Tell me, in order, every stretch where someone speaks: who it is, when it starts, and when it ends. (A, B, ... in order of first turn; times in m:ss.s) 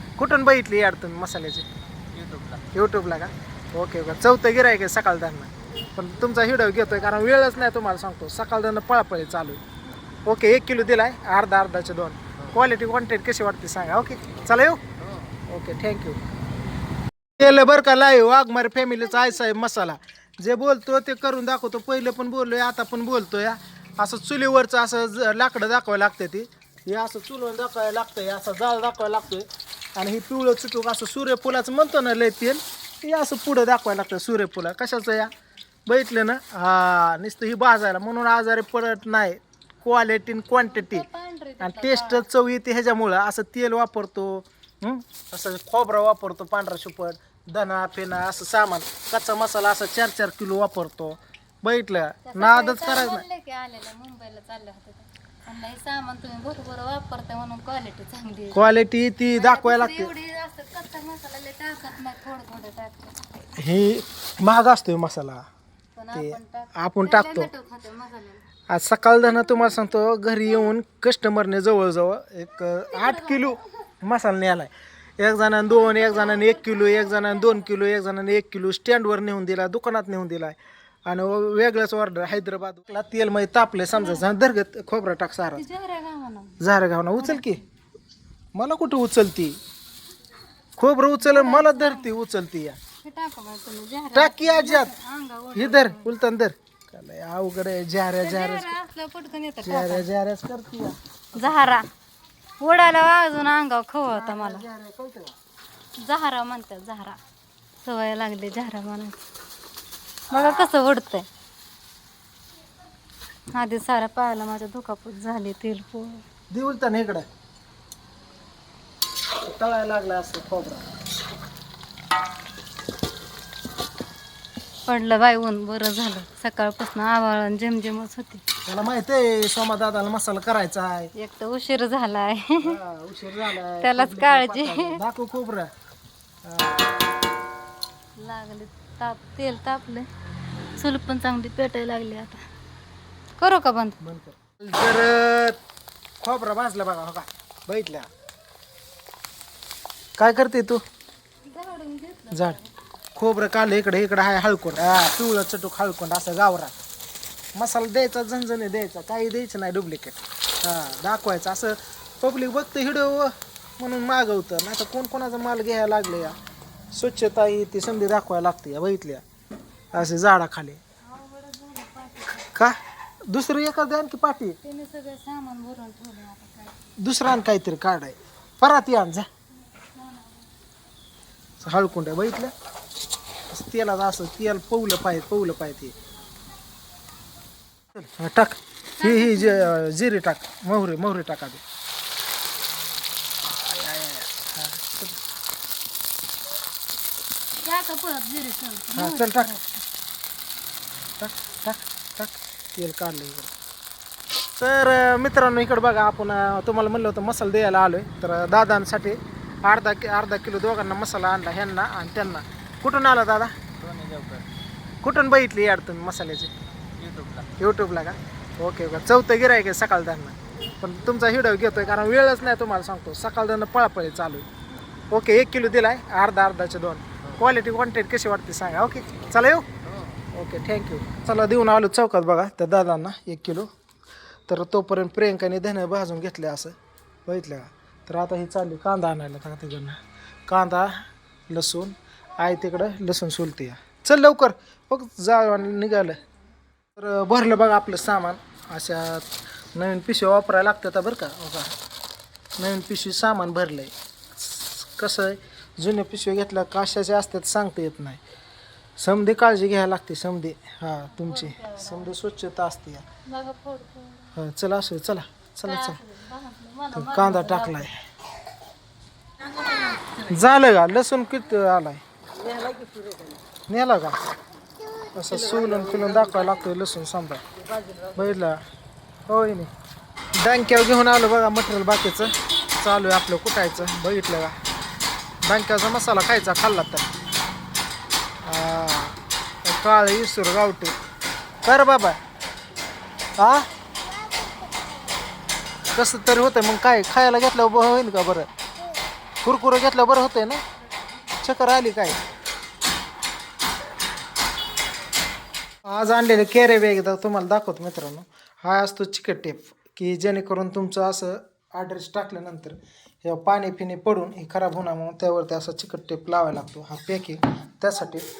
0:00.2-0:01.7 A
0:02.1-0:02.6 B
0:02.7-0:09.6 A
0:10.2-0:14.8 A
0:15.5-0:16.2 A
0:17.4-0:35.3 A
0:35.9-0:41.0 A
0:40.7-0:42.3 C
0:41.6-0:53.2 A
0:52.3-0:58.7 C
0:58.5-1:00.1 A
0:59.3-1:03.2 C
1:03.6-1:05.4 A
1:06.0-1:08.4 C
1:06.1-1:07.5 A
1:08.7-1:25.6 A
1:12.9-1:13.5 C
1:15.8-1:17.6 C
1:23.9-1:24.2 C
1:25.5-1:26.6 C
1:26.6-1:27.6 A
1:27.2-1:27.6 C
1:28.5-1:29.6 A
1:30.8-1:32.8 A
1:31.2-1:32.1 C
1:33.0-1:36.1 C
1:34.1-1:34.9 A
1:35.5-1:38.7 A
1:38.2-1:40.1 C
1:39.6-1:41.8 A
1:41.4-1:41.9 C
1:42.6-1:44.6 C
1:44.0-1:45.3 A
1:46.0-1:47.2 C
1:47.8-1:49.2 C
1:50.3-1:51.3 C
1:53.5-1:56.2 C
1:56.5-1:57.2 A
1:59.4-2:00.9 A
2:04.9-2:08.4 C
2:08.6-2:11.1 A
2:11.1-2:12.7 C
2:12.6-2:15.7 A
2:13.8-2:15.0 C
2:16.4-2:16.9 A
2:18.2-2:20.1 C
2:20.8-2:22.4 C
2:23.4-2:24.0 C
2:24.0-2:25.6 A
2:26.2-2:28.1 A
2:30.2-2:30.8 A
2:31.4-2:32.7 C
2:32.3-2:32.6 A
2:33.1-2:36.7 A
2:37.5-2:46.4 A
2:46.9-2:49.2 A
2:49.9-2:50.8 A
2:51.0-2:52.5 C
2:53.3-2:54.6 A
2:54.6-2:56.8 C
2:57.0-2:59.3 A
2:59.8-3:00.5 C
3:01.6-3:02.5 A
3:03.5-3:05.9 A
3:07.9-3:11.6 A
3:09.0-3:09.7 C
3:13.6-3:15.2 A
3:17.6-3:19.8 C
3:19.0-3:19.5 A
3:21.2-3:23.5 A
3:24.6-3:33.5 A
3:33.8-3:34.5 B
3:35.0-3:36.5 A
3:37.0-3:37.5 B
3:37.6-3:44.5 A
3:45.1-3:49.7 A
3:50.3-3:53.7 A
3:54.5-4:06.2 A
4:07.0-4:11.7 A
4:12.6-4:18.2 A
4:19.0-4:23.0 A
4:21.1-4:22.1 C
4:23.2-4:24.3 C
4:24.3-4:26.0 A
4:25.6-4:27.9 C
4:26.9-4:28.0 A
4:29.5-4:30.0 C
4:30.3-4:32.0 A
4:32.5-4:33.2 B
4:33.7-4:34.2 A
4:35.1-4:37.4 A
4:38.1-4:38.6 A
4:39.3-4:39.7 A
4:40.4-4:44.6 A
4:45.4-4:47.1 A
4:48.4-4:51.0 A
4:51.6-4:52.2 A
4:53.4-4:53.7 A
4:55.9-4:58.5 A
4:59.4-5:00.6 A
5:01.4-5:02.2 A
5:05.8-5:18.2 A